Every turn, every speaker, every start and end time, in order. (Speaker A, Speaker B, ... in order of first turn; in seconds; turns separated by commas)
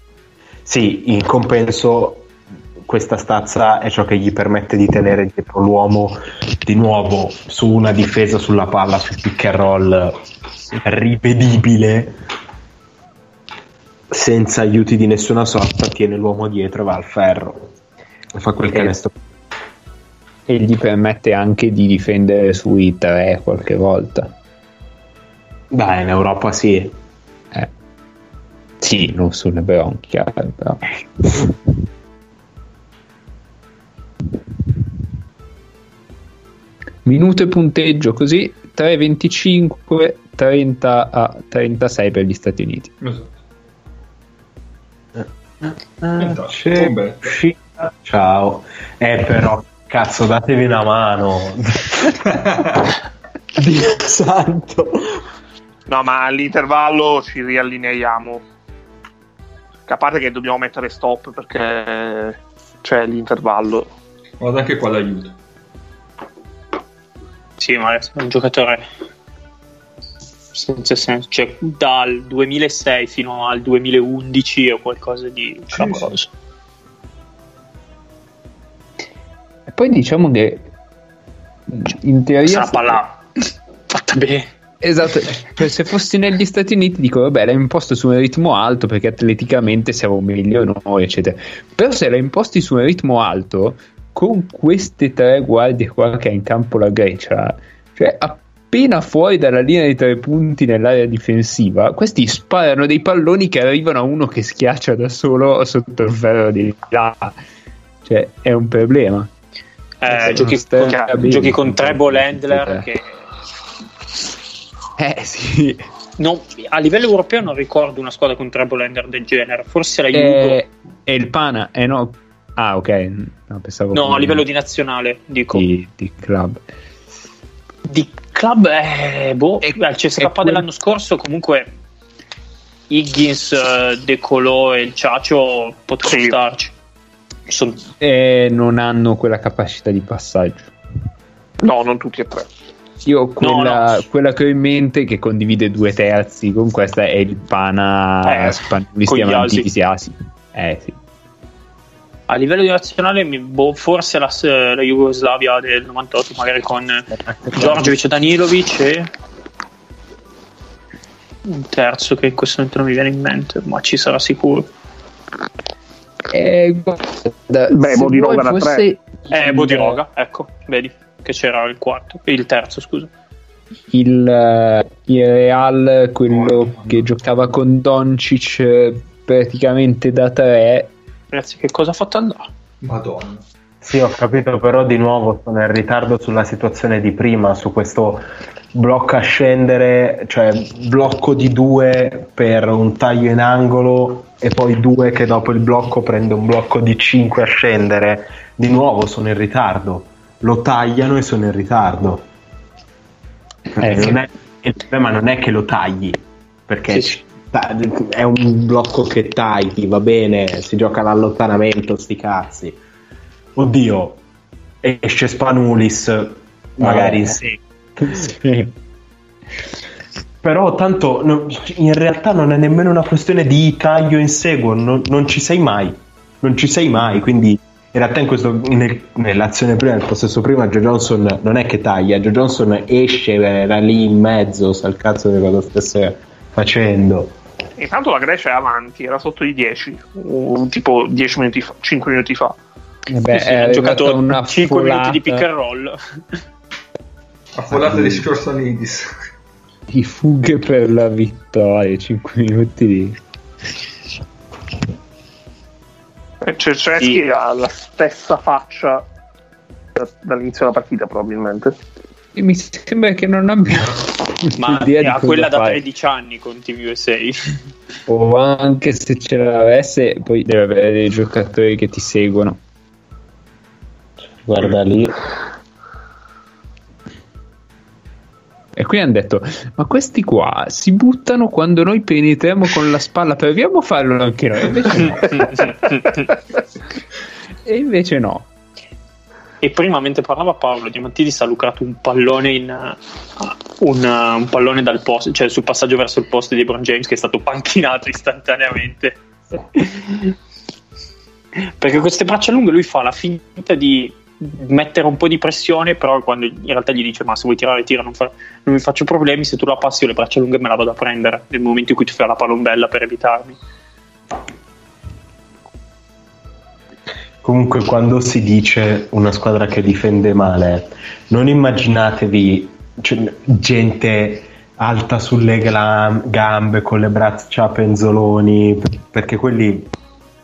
Speaker A: 0.7-2.3, Speaker A: 2.8-10.2, Speaker A: 10.7-12.2, Speaker A: 14.1-17.7, Speaker A: 18.3-19.2, Speaker B: 20.5-24.3, Speaker A: 25.7-26.9, Speaker B: 28.8-31.4, Speaker B: 37.0-42.9, Speaker C: 43.0-43.4, Speaker A: 45.2-52.4, Speaker C: 46.1-47.3, Speaker C: 52.3-52.8, Speaker A: 53.5-55.2, Speaker D: 55.9-58.4, Speaker D: 59.9-63.9, Speaker C: 64.4-65.3, Speaker E: 67.6-68.8, Speaker E: 70.5-76.3, Speaker C: 75.7-76.2, Speaker B: 79.7-80.7, Speaker B: 81.7-83.0, Speaker E: 82.4-83.2, Speaker E: 83.9-84.5, Speaker B: 84.8-107.3, Speaker B: 108.0-109.3, Speaker E: 110.0-113.2, Speaker B: 110.1-112.8, Speaker D: 110.9-111.2, Speaker B: 115.0-115.8, Speaker E: 116.2-120.6, Speaker B: 120.1-124.4, Speaker E: 123.9-125.7, Speaker B: 125.5-126.6, Speaker E: 127.9-131.7, Speaker B: 129.6-130.6, Speaker E: 132.9-136.7, Speaker D: 136.1-136.4, Speaker E: 137.5-137.8, Speaker B: 138.0-140.7, Speaker D: 141.6-142.5, Speaker B: 143.0-151.0, Speaker E: 143.4-144.0, Speaker E: 148.2-149.7, Speaker E: 152.3-159.1, Speaker A: 157.1-157.9, Speaker E: 161.4-164.7, Speaker B: 166.3-170.0, Speaker D: 167.7-168.8, Speaker E: 169.3-173.1, Speaker B: 173.9-180.9, Speaker C: 176.3-177.1, Speaker E: 181.3-182.5, Speaker C: 182.8-183.4, Speaker A: 183.8-202.2, Speaker B: 203.8-204.2, Speaker A: 203.8-212.8, Speaker A: 213.6-214.2, Speaker A: 214.8-218.3, Speaker B: 216.8-217.4, Speaker B: 218.1-218.7, Speaker A: 220.4-237.4, Speaker D: 237.8-242.6, Speaker B: 243.1-245.4, Speaker E: 243.3-246.2, Speaker C: 247.5-249.1, Speaker B: 249.9-253.2, Speaker D: 256.4-259.0, Speaker D: 259.9-261.7, Speaker B: 262.3-265.8, Speaker E: 264.6-267.6, Speaker B: 268.1-272.6, Speaker A: 274.4-275.2, Speaker B: 278.8-285.6, Speaker E: 285.3-286.1, Speaker B: 287.6-288.5, Speaker E: 289.6-299.2, Speaker E: 299.8-300.3, Speaker E: 301.6-313.6, Speaker A: 317.4-329.9